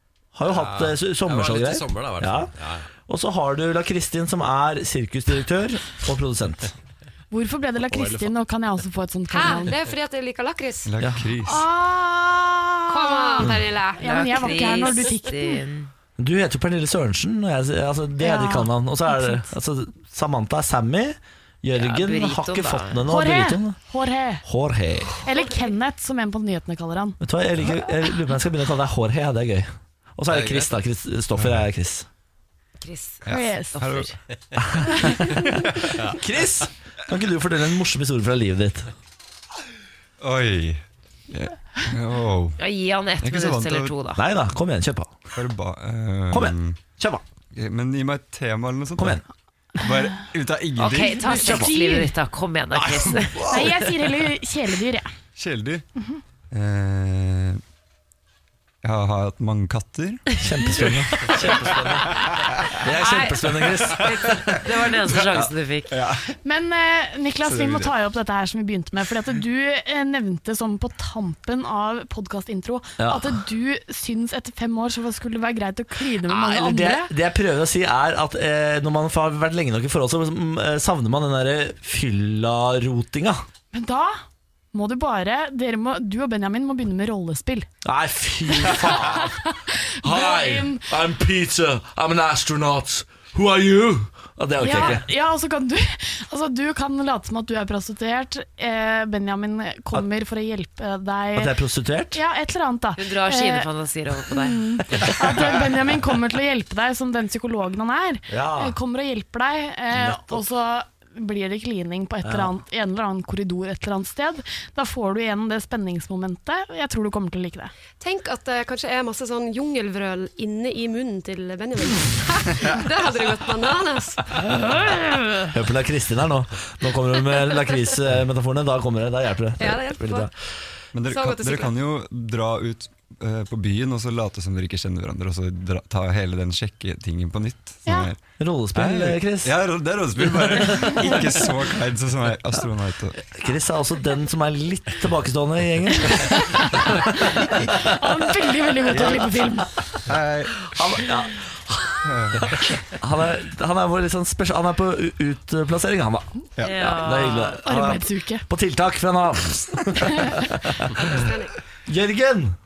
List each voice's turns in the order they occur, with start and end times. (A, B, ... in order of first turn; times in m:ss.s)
0:00.3-0:02.5 A
0:00.4-0:02.9 B
0:03.0-0:06.7 A
0:07.3-0:09.8 C
0:09.3-0:10.9 D
0:10.8-0:11.7 E
0:11.0-0:11.3 A
0:11.4-0:15.6 C
0:12.9-0:14.0 D
0:14.0-0:15.9 F
0:16.2-0:23.8 A
0:18.2-0:19.5 C
0:21.7-0:23.0 F
0:23.1-0:24.4 C
0:24.4-0:25.2 A
0:25.2-0:27.2 C
0:27.2-0:32.0 A
0:30.3-0:30.7 B
0:31.4-0:31.6 E
0:32.8-0:34.1 F
0:33.2-0:34.1 E
0:33.3-0:33.8 C
0:34.6-0:38.9 A
0:35.0-0:35.3 C
0:40.2-0:42.6 E
0:42.6-0:44.2 F
0:43.2-0:43.9 E
0:44.1-0:45.2 A
0:45.3-0:46.8 E
0:46.3-0:47.2 A
0:47.5-0:49.2 E
0:49.0-0:49.2 A
0:49.8-0:51.2 E
0:50.8-0:53.4 F
0:51.2-0:52.1 C
0:51.4-0:51.7 A
0:53.5-0:55.1 C
0:55.4-0:55.8 E
0:56.5-0:57.6 E
0:58.8-1:00.2 E
1:00.4-1:02.0 A
1:02.8-1:04.4 A
1:02.8-1:05.9 F
1:05.4-1:06.3 E
1:06.4-1:17.1 C
1:07.4-1:07.9 E
1:13.0-1:13.4 A
1:16.2-1:23.4 A
1:23.7-1:24.2 C
1:24.7-1:27.7 C
1:27.8-1:29.4 A
1:28.5-1:30.8 C
1:30.0-1:35.0 A
1:34.6-1:41.5 C
1:41.3-1:42.2 A
1:42.1-1:43.7 C
1:43.0-1:45.1 F
1:44.3-1:57.7 C
1:48.3-1:48.8 A
1:49.9-1:50.4 A
1:52.2-1:52.5 A
1:58.0-2:04.3 D
2:05.4-2:10.3 A
2:09.6-2:10.3 D
2:10.9-2:18.2 E
2:11.0-2:11.8 D
2:17.8-2:18.1 C
2:18.4-2:19.5 A
2:18.7-2:23.2 E
2:23.3-2:27.8 A
2:27.8-2:29.7 C
2:28.9-2:29.2 A
2:30.0-2:30.7 E
2:30.7-2:41.2 A
2:32.0-2:32.6 E
2:36.6-2:37.0 E
2:36.6-2:37.6 F
2:37.6-2:38.4 C
2:40.1-2:40.3 C
2:41.0-2:41.5 D
2:41.9-2:42.6 A